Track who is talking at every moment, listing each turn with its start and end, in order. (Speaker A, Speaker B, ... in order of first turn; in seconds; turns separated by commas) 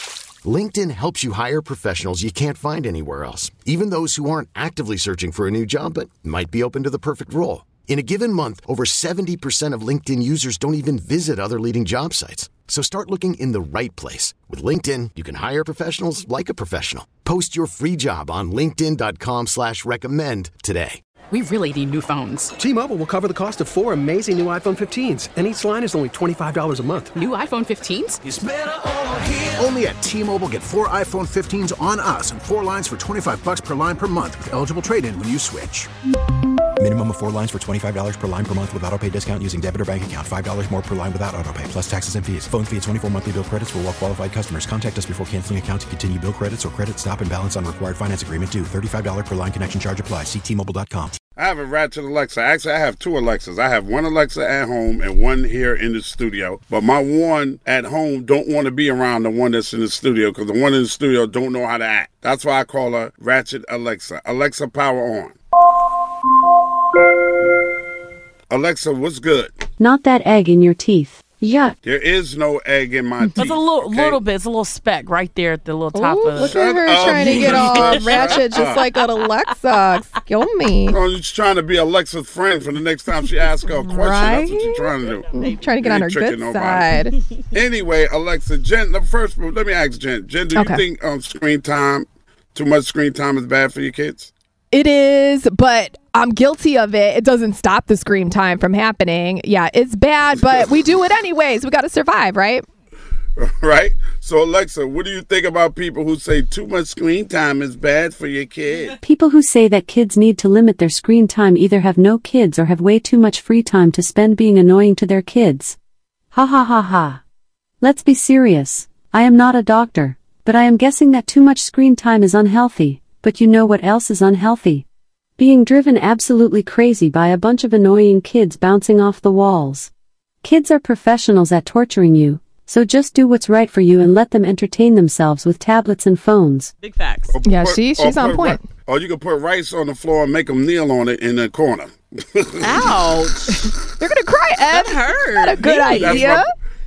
Speaker A: 0.4-21.0, Speaker B: 21.3-22.5, Speaker C: 22.6-27.1, Speaker B: 27.1-28.2, Speaker D: 28.2-35.9, Speaker E: 36.8-51.2, Speaker F: 51.4-65.3, Speaker F: 68.5-69.5, Speaker G: 69.8-71.8, Speaker F: 71.8-74.2, Speaker B: 73.4-74.0, Speaker H: 73.4-76.4, Speaker I: 75.9-81.0, Speaker F: 76.4-78.8, Speaker H: 77.6-78.4, Speaker F: 80.9-86.9, Speaker I: 83.8-87.1, Speaker F: 87.5-94.3, Speaker I: 90.5-90.8, Speaker I: 94.7-102.6, Speaker F: 103.4-109.0, Speaker G: 109.0-115.8, Speaker G: 116.3-117.2, Speaker G: 117.8-124.8, Speaker G: 125.4-129.9, Speaker G: 130.4-136.7, Speaker B: 136.9-137.3, Speaker F: 137.3-142.9, Speaker I: 137.4-138.6, Speaker B: 142.6-143.4, Speaker I: 143.5-146.5, Speaker B: 144.7-146.2, Speaker F: 145.8-146.4